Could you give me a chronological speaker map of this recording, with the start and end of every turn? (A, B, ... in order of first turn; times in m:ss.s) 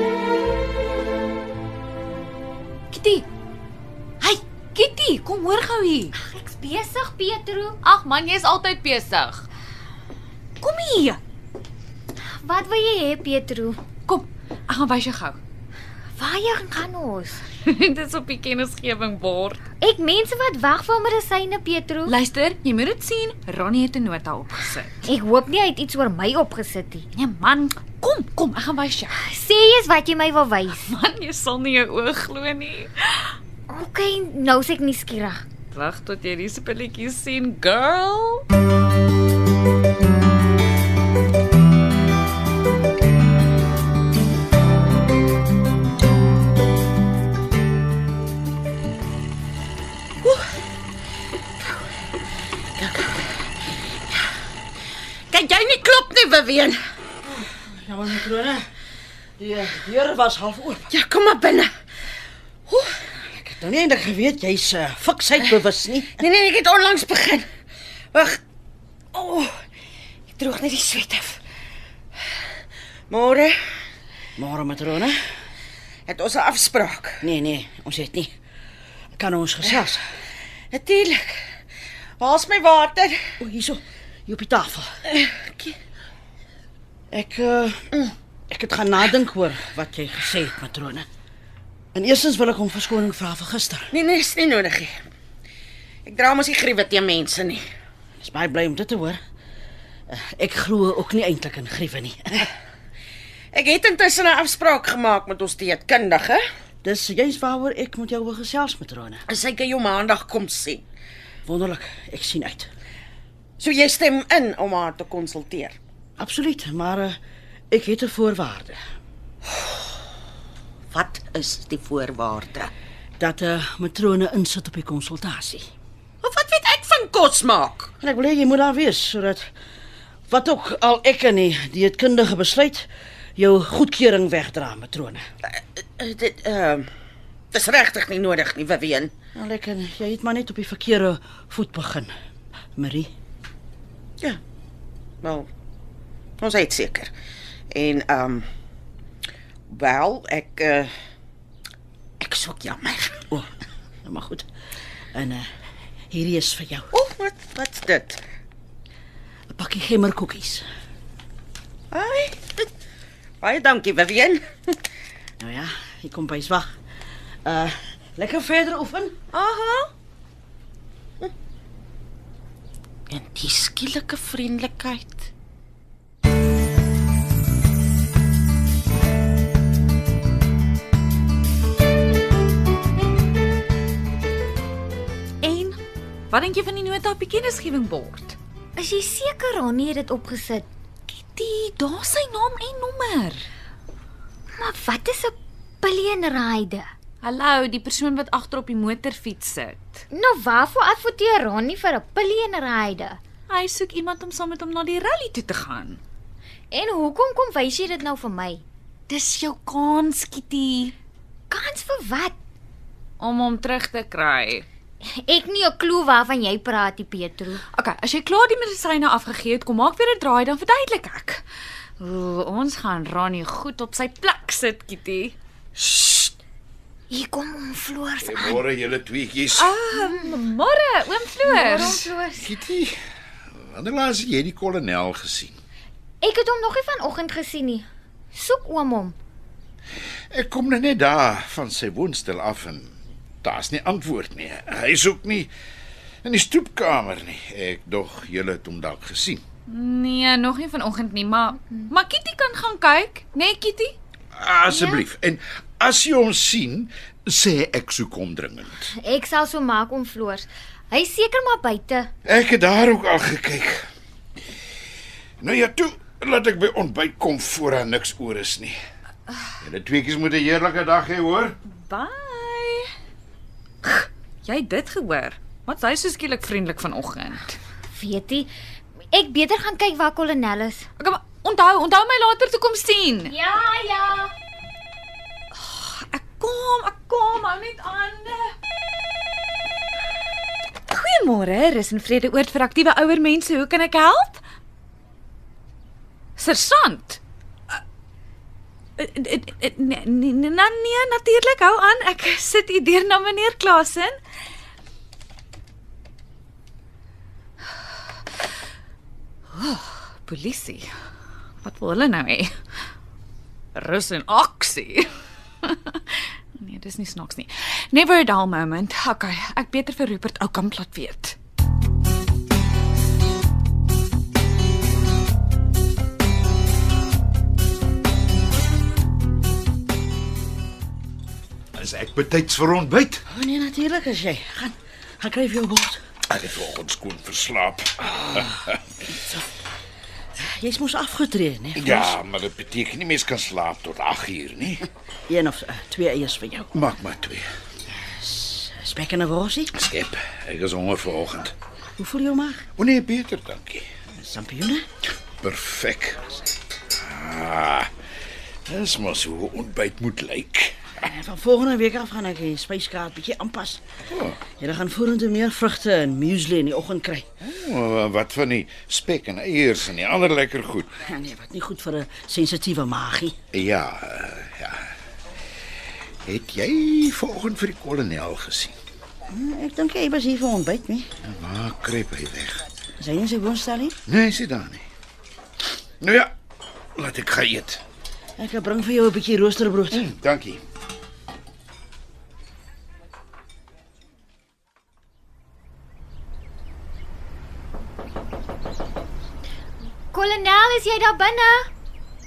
0:02.9-0:03.2 A
0:04.2-0:06.1 A
0:06.1-0:07.8 B
0:07.8-0:09.4 A
0:10.6-0:11.2 A
0:12.4-0:13.8 B
0:14.1-0:15.4 A
0:16.2-0:17.4 B
0:17.6-0:19.6 A
0:19.8-0:22.1 B
0:22.0-0:25.1 A
0:25.0-0:27.1 B
0:27.1-0:29.2 A
0:29.2-0:30.9 B
0:30.7-0:33.4 A
0:33.7-0:35.4 B
0:35.7-0:38.4 A
0:52.8-0:53.3 C
0:55.3-0:56.8 C
0:57.2-0:58.7 D
0:59.4-1:00.9 D
1:00.9-1:01.7 C
1:03.2-1:06.2 D
1:06.1-1:07.5 C
1:08.1-1:08.4 C
1:09.1-1:09.6 C
1:10.4-1:11.4 C
1:13.1-1:13.8 C
1:14.4-1:15.2 D
1:16.1-1:17.3 C
1:17.2-1:18.3 D
1:19.2-1:20.0 D
1:19.6-1:20.0 C
1:20.7-1:21.5 C
1:22.2-1:23.2 C
1:23.4-1:24.9 D
1:25.1-1:25.8 C
1:27.1-1:27.8 D
1:28.5-1:31.0 D
1:31.9-1:33.9 D
1:33.9-1:35.0 C
1:36.0-1:37.6 C
1:38.2-1:39.2 D
1:40.1-1:42.5 D
1:43.5-1:46.4 C
1:46.8-1:49.2 D
1:49.3-1:50.8 C
1:51.4-1:52.7 D
1:53.6-1:55.8 C
1:56.2-1:57.2 D
1:57.7-1:58.8 D
2:00.9-2:02.7 C
2:03.2-2:05.6 D
2:06.2-2:07.9 C
2:08.0-2:09.5 D
2:10.3-2:15.2 D
2:15.5-2:16.9 C
2:17.5-2:19.1 C
2:19.4-2:22.1 D
2:22.8-2:23.1 D
2:25.2-2:25.5 C
2:26.4-2:27.1 C
2:27.7-2:28.4 C
2:29.7-2:30.9 C
2:32.2-2:33.2 C
2:34.0-2:34.4 D
2:35.1-2:35.5 D
2:36.1-2:36.8 D
2:36.9-2:38.2 C
2:39.5-2:40.6 D
2:41.9-2:42.7 C
2:43.4-2:44.8 C
2:45.4-2:46.7 D
2:47.4-2:49.2 D
2:49.3-2:49.9 C
2:53.1-2:55.3 C
3:05.4-3:05.8 A
3:06.3-3:08.4 A
3:08.7-3:10.7 B
3:11.1-3:13.5 A
3:14.6-3:16.9 B
3:17.2-3:20.0 A
3:20.1-3:23.2 B
3:23.5-3:26.0 A
3:26.7-3:28.6 B
3:29.1-3:30.9 A
3:31.5-3:32.3 B
3:33.2-3:34.6 A
3:35.0-3:37.6 B
3:37.7-3:41.4 A
3:42.0-3:45.4 A
3:45.8-3:46.2 C
3:47.1-3:48.6 B
3:48.2-3:49.8 E
3:49.6-3:52.1 A
3:49.9-3:50.3 B
3:51.4-3:52.5 B
3:51.8-3:53.0 E
3:53.5-3:55.6 E
3:56.2-3:59.1 B
4:00.3-4:05.5 E
4:06.2-4:09.4 E
4:09.7-4:14.0 A
4:14.3-4:18.9 E
4:14.7-4:15.0 B
4:19.0-4:22.1 B
4:22.2-4:23.8 E
4:25.4-4:28.8 E
4:29.6-4:31.6 E
4:31.7-4:32.9 A
4:33.8-4:37.6 A
4:37.9-4:38.5 B
4:39.1-4:40.9 B
4:41.0-4:43.3 A
4:43.3-4:44.3 B
4:45.5-4:48.5 A
4:50.9-4:54.4 A
4:56.4-4:57.2 A
4:59.0-5:04.2 A
5:09.5-5:10.9 A
5:11.6-5:12.5 A
5:13.7-5:15.1 A
5:15.6-5:21.4 A
5:31.8-5:33.2 E
5:33.3-5:36.0 D
5:36.3-5:38.8 E
5:40.4-5:42.1 D
5:41.7-5:44.8 E
5:45.3-5:46.7 D
5:46.7-5:47.5 E
5:47.9-5:49.7 D
5:49.7-5:51.5 E
5:52.0-5:52.6 D
5:52.8-5:53.9 E
5:54.1-5:54.8 D
5:55.4-5:56.3 E
5:57.0-5:57.9 E
5:58.7-6:00.7 E
6:01.0-6:03.8 D
6:04.1-6:04.4 E
6:04.5-6:07.3 D
6:07.4-6:10.9 E
6:11.0-6:13.4 D
6:13.5-6:14.9 E
6:16.2-6:18.7 E
6:19.3-6:21.1 D
6:21.2-6:22.6 E
6:23.0-6:24.0 D
6:24.0-6:24.8 E
6:26.0-6:26.3 E
6:27.0-6:27.8 E
6:28.4-6:30.0 D
6:29.9-6:30.6 E
6:40.1-6:41.7 B